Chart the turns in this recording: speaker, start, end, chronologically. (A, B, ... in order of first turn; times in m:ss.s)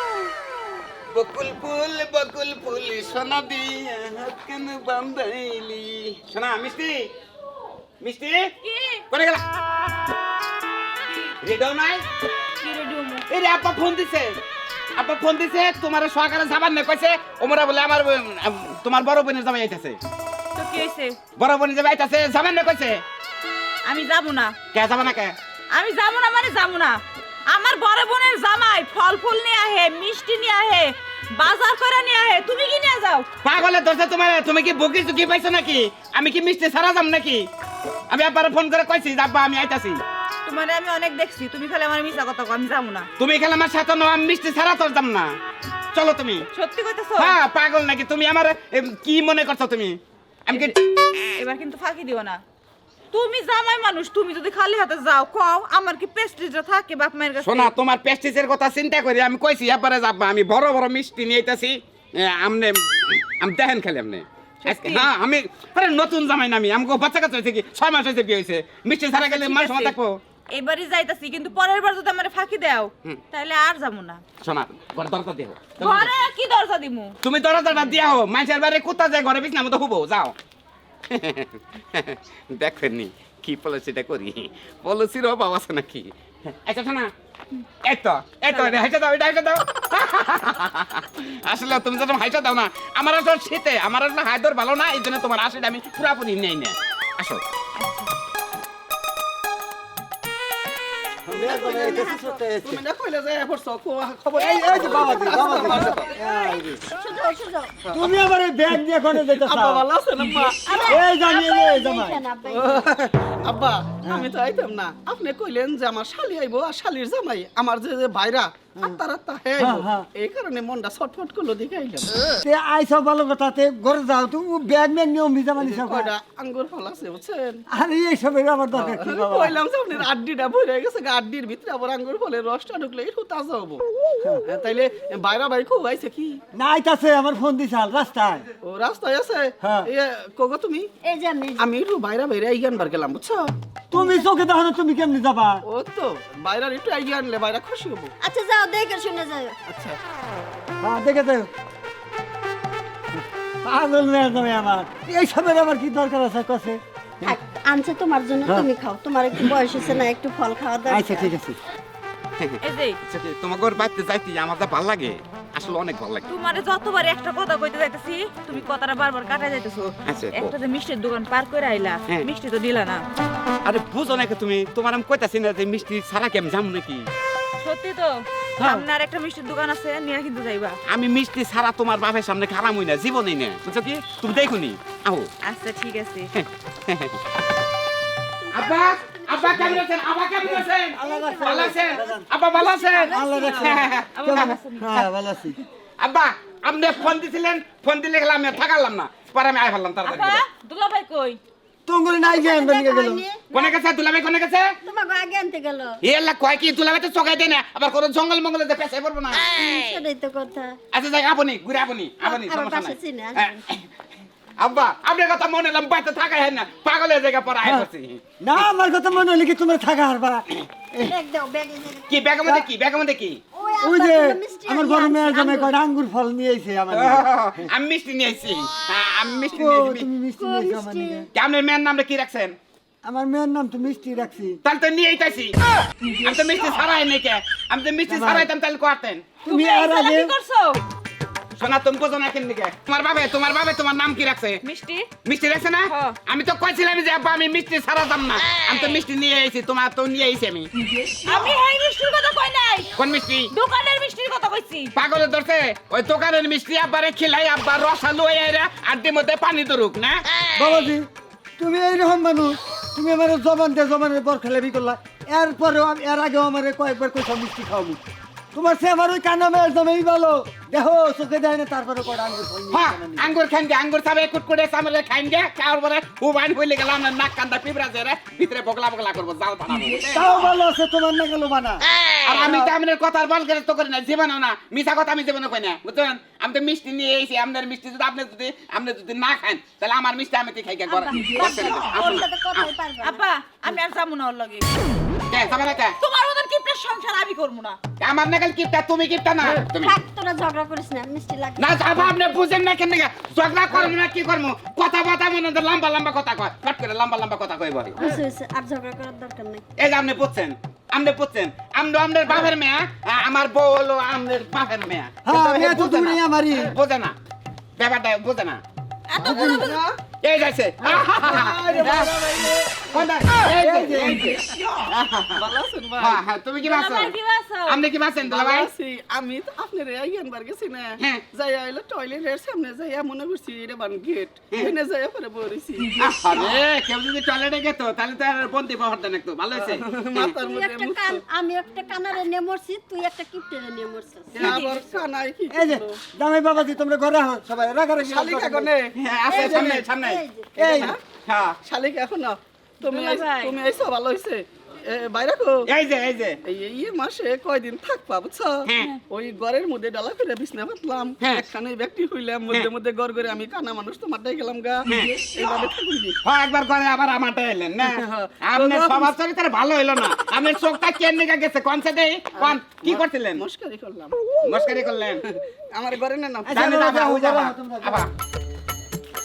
0:01.1-0:07.1 A
0:08.0-0:08.5 A
0:08.6-0:09.0 B
0:09.1-0:09.4 A
0:11.4-0:12.0 A
0:12.6-0:13.2 B
0:13.3-0:14.4 A
0:15.0-0:20.0 A
0:20.6-0:21.2 B
0:21.4-0:23.0 A
0:23.8-0:24.6 B
0:24.7-0:25.4 A
0:25.7-0:33.3 B
0:33.4-0:37.5 A
0:38.1-0:40.0 A
0:40.4-0:43.1 B
0:43.2-0:45.3 A
0:45.9-0:46.5 A
0:46.5-0:47.4 B
0:47.2-0:50.7 A
0:50.5-0:52.4 B
0:53.1-0:57.7 B
0:57.4-1:10.2 A
1:04.6-1:05.1 B
1:09.1-1:09.9 B
1:10.5-1:14.2 B
1:14.4-1:16.1 A
1:15.8-1:17.2 B
1:17.2-1:20.3 A
1:21.1-1:27.1 A
1:27.8-1:37.4 A
1:28.5-1:28.8 B
1:37.8-1:38.1 B
1:41.2-1:42.8 C
1:41.3-1:42.4 D
1:42.6-1:46.1 E
1:44.3-1:46.8 C
1:45.5-1:47.8 D
1:47.9-1:49.8 C
1:49.2-1:51.0 E
1:50.6-1:52.9 D
1:50.8-1:52.2 C
1:52.4-2:02.2 E
1:59.6-2:00.0 C
2:02.4-2:06.1 C
2:05.6-2:07.6 E
2:07.7-2:09.6 C
2:08.7-2:13.8 E
2:14.4-2:16.4 E
2:16.5-2:18.5 C
2:18.6-2:20.9 E
2:19.6-2:19.9 C
2:21.0-2:21.6 D
2:21.6-2:23.5 E
2:23.9-2:25.6 C
2:23.9-2:24.2 D
2:25.6-2:28.1 E
2:28.2-2:29.6 D
2:29.7-2:30.0 E
2:30.8-2:31.5 C
2:33.6-2:37.3 C
2:37.2-2:41.3 D
2:40.9-2:41.6 C
2:42.4-2:46.3 A
2:42.6-2:43.0 B
2:46.3-2:53.0 B
2:50.1-2:50.5 A
2:53.6-2:57.1 A
2:57.6-3:00.8 B
2:58.6-2:58.8 A
3:00.9-3:05.3 A
3:05.4-3:06.3 B
3:06.3-3:07.2 A
3:08.5-3:09.8 D
3:08.5-3:14.5 A
3:10.4-3:12.2 C
3:11.0-3:14.0 D
3:13.0-3:15.6 C
3:14.1-3:15.1 B
3:16.0-3:20.4 A
3:20.0-3:21.4 B
3:21.9-3:23.2 C
3:22.2-3:23.4 D
3:23.5-3:23.8 B
3:23.5-3:24.8 A
3:24.8-3:26.0 D
3:26.0-3:29.5 A
3:29.4-3:30.8 D
3:30.9-3:33.8 A
3:32.2-3:33.6 D
3:34.6-3:38.2 A
3:38.4-3:41.1 C
3:41.0-3:42.2 D
3:42.1-3:43.4 A
3:43.5-3:45.7 D
3:43.8-3:47.7 C
3:46.9-3:50.1 A
3:49.5-3:51.3 C
3:50.4-3:51.3 D
3:51.3-3:52.6 A
3:53.0-3:54.6 C
3:54.6-3:55.6 A
3:56.2-3:59.4 A
3:58.1-3:58.5 C
3:59.4-4:00.3 C
3:59.4-4:00.8 B
4:01.5-4:04.6 A
4:04.6-4:05.1 B
4:05.2-4:10.7 A
4:05.9-4:06.2 B
4:08.5-4:09.0 B
4:11.0-4:12.9 B
4:13.0-4:13.5 A
4:13.5-4:14.9 B
4:15.0-4:20.2 A
4:20.6-4:28.0 C
4:28.5-4:33.3 C
4:32.7-4:40.3 A
4:40.1-4:41.9 C
4:42.2-4:52.7 A
4:42.4-4:42.7 C
4:50.8-4:53.2 D
4:53.0-4:54.8 B
4:55.3-4:56.0 A
4:56.0-4:57.8 B
4:58.0-4:59.9 A
4:59.8-5:02.5 D
5:01.6-5:08.0 A
5:08.0-5:09.6 D
5:09.8-5:15.1 A
5:15.2-5:16.7 C
5:15.3-5:16.2 E
5:16.6-5:17.1 A
5:17.8-5:18.6 A
5:19.1-5:20.0 E
5:19.2-5:19.8 C
5:20.2-5:22.1 A
5:20.8-5:22.5 C
5:21.2-5:22.8 E
5:22.9-5:25.4 A
5:23.5-5:24.4 C
5:24.1-5:24.6 E
5:25.3-5:26.2 E
5:26.0-5:27.1 A
5:26.6-5:27.8 B
5:27.7-5:28.7 A
5:28.3-5:36.6 E
5:36.0-5:40.3 A
5:39.6-5:41.2 E
5:40.2-5:44.6 D
5:44.3-5:46.0 E
5:44.4-5:44.8 B
5:45.5-5:48.7 C
5:48.0-5:49.8 E
5:48.9-5:50.2 A
5:49.3-5:50.7 D
5:50.6-5:50.9 C
5:50.6-5:51.0 E
5:50.7-5:51.6 A
5:51.6-5:55.6 E
5:52.8-5:53.6 B
5:55.7-5:56.4 A
5:56.4-6:06.2 E
5:58.6-5:58.9 A
6:04.9-6:05.1 A
6:06.2-6:13.4 A
6:07.8-6:09.1 E
6:12.4-6:14.2 E
6:14.4-6:15.2 A
6:15.7-6:16.6 E
6:16.4-6:18.0 C
6:16.5-6:18.1 A